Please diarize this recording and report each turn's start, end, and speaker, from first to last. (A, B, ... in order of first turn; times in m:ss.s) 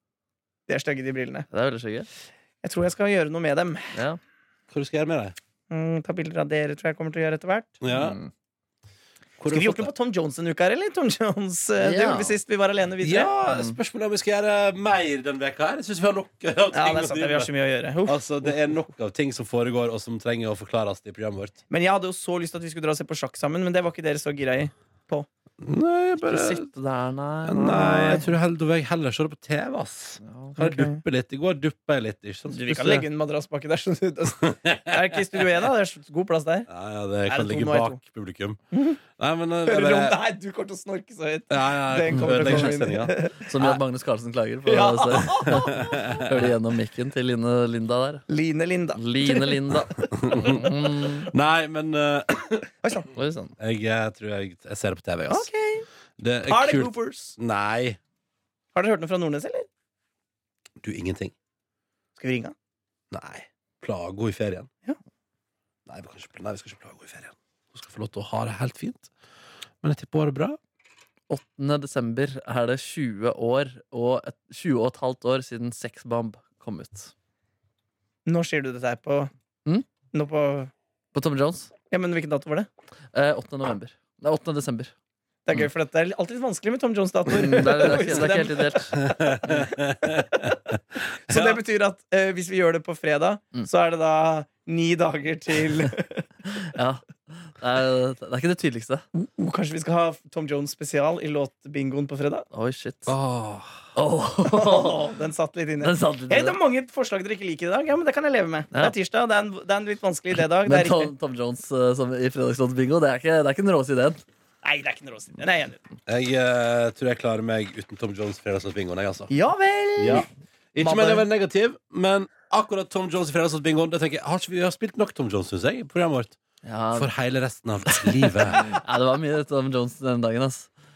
0:00.7-0:01.5 A
0:01.5-0:02.1 B
0:02.6-0:04.0 A
0:03.9-0:04.2 B
0:04.7-0:05.4 C
0:05.7-0:07.7 A
0:07.8-0:08.2 C
0:07.9-0:08.3 B
0:09.4-0:09.9 C
0:09.5-0:13.3 A
0:11.8-0:12.4 B
0:13.0-0:17.5 C
0:13.5-0:13.8 B
0:16.7-0:18.5 A
0:18.0-0:21.6 C
0:21.7-0:25.3 A
0:25.6-0:26.7 C
0:26.2-0:28.2 B
0:27.4-0:33.1 C
0:27.6-0:28.2 A
0:30.2-0:30.5 B
0:30.6-0:31.0 A
0:32.5-0:36.7 A
0:34.5-0:35.5 C
0:36.7-0:40.2 C
0:37.3-0:38.0 A
0:38.7-0:39.0 A
0:39.7-0:43.8 A
0:41.5-0:43.1 C
0:42.1-0:42.8 B
0:43.4-0:48.2 B
0:44.6-0:45.9 A
0:45.4-0:46.5 C
0:48.3-0:49.6 A
0:48.9-0:51.3 B
0:50.0-0:52.7 C
0:52.8-0:53.1 A
0:53.1-0:53.5 B
0:53.6-0:55.5 C
0:55.3-0:55.8 A
0:56.2-0:58.0 C
0:56.4-0:57.3 A
0:58.7-0:59.7 A
1:00.8-1:01.3 C
1:02.2-1:02.5 A
1:03.1-1:04.7 C
1:05.9-1:09.1 C
1:09.8-1:10.6 C
1:11.3-1:17.1 B
1:18.2-1:19.3 A
1:20.1-1:20.7 A
1:21.1-1:21.7 B
1:21.9-1:22.7 A
1:23.1-1:24.9 B
1:25.4-1:29.6 A
1:27.3-1:28.9 B
1:29.0-1:31.6 C
1:31.3-1:36.2 A
1:36.5-1:39.0 B
1:39.1-1:42.4 A
1:42.5-1:43.1 B
1:43.1-1:43.8 C
1:44.0-1:45.0 B
1:44.4-1:51.1 A
1:45.8-1:46.6 B
1:50.6-1:54.2 B
1:54.6-1:55.8 A
1:56.1-1:59.3 C
1:59.3-2:00.3 A
2:00.0-2:06.4 C
2:00.8-2:01.2 A
2:06.6-2:07.1 B
2:06.9-2:08.7 C
2:07.8-2:10.7 B